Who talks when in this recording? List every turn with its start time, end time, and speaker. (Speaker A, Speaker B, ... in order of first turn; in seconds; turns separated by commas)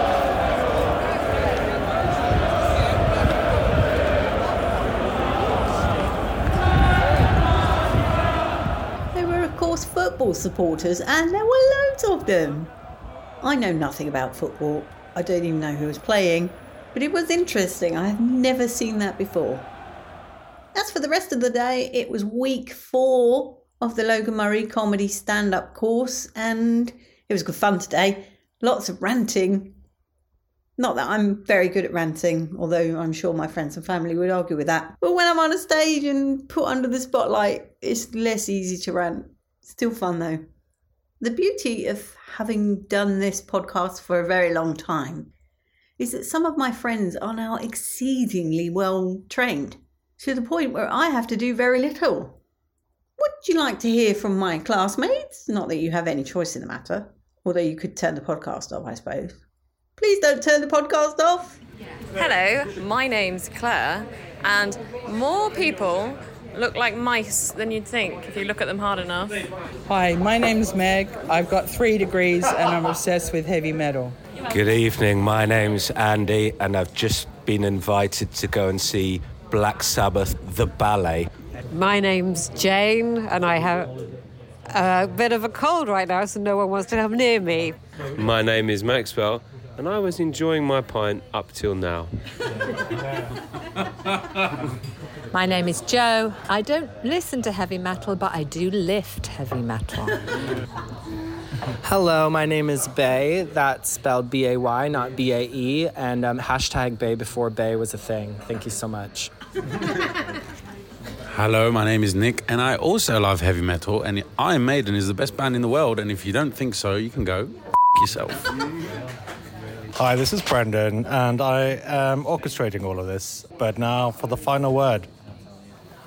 Speaker A: 9.1-12.7, Speaker A: 13.4-19.7, Speaker A: 20.7-29.8, Speaker A: 30.8-40.5, Speaker A: 41.2-45.3, Speaker A: 46.0-52.4, Speaker A: 53.2-59.4, Speaker A: 60.0-61.6, Speaker B: 62.1-69.3, Speaker C: 69.9-74.1, Speaker D: 74.6-81.2, Speaker E: 81.7-83.9, Speaker E: 84.7-87.8, Speaker F: 88.2-92.1, Speaker G: 95.3-100.2, Speaker H: 101.8-109.3, Speaker I: 111.3-118.4, Speaker J: 120.0-125.1